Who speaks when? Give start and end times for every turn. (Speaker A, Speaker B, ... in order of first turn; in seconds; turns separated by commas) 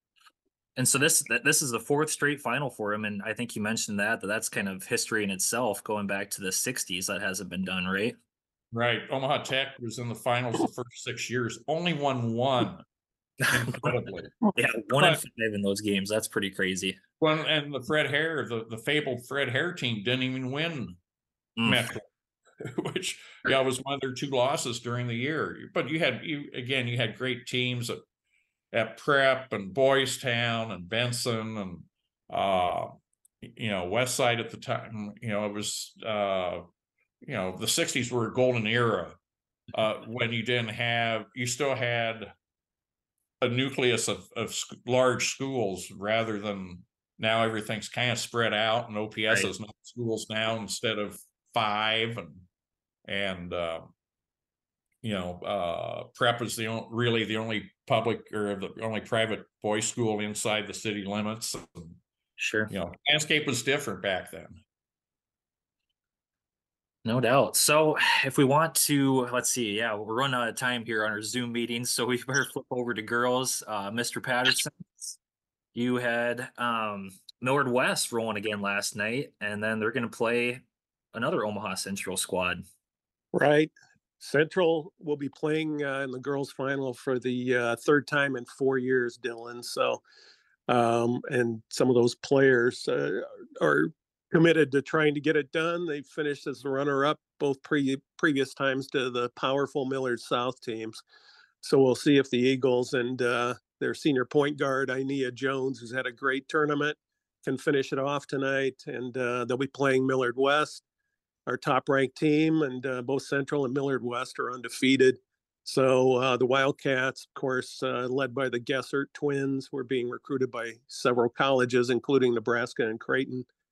Speaker A: 0.8-8.2, Speaker B: 8.7-12.8, Speaker A: 13.5-13.9, Speaker B: 13.5-14.4, Speaker A: 14.5-17.0, Speaker B: 17.2-21.0, Speaker A: 21.6-21.9, Speaker B: 21.6-22.1, Speaker B: 22.6-28.0, Speaker B: 28.7-36.6, Speaker B: 37.2-39.2, Speaker B: 39.7-42.3, Speaker B: 43.4-52.5, Speaker B: 53.1-53.9, Speaker B: 55.0-62.0, Speaker A: 62.4-62.7, Speaker B: 62.7-64.6, Speaker A: 67.0-75.2, Speaker A: 75.8-82.6, Speaker C: 83.3-90.0, Speaker C: 90.7-101.0, Speaker C: 101.6-110.8, Speaker C: 111.5-123.5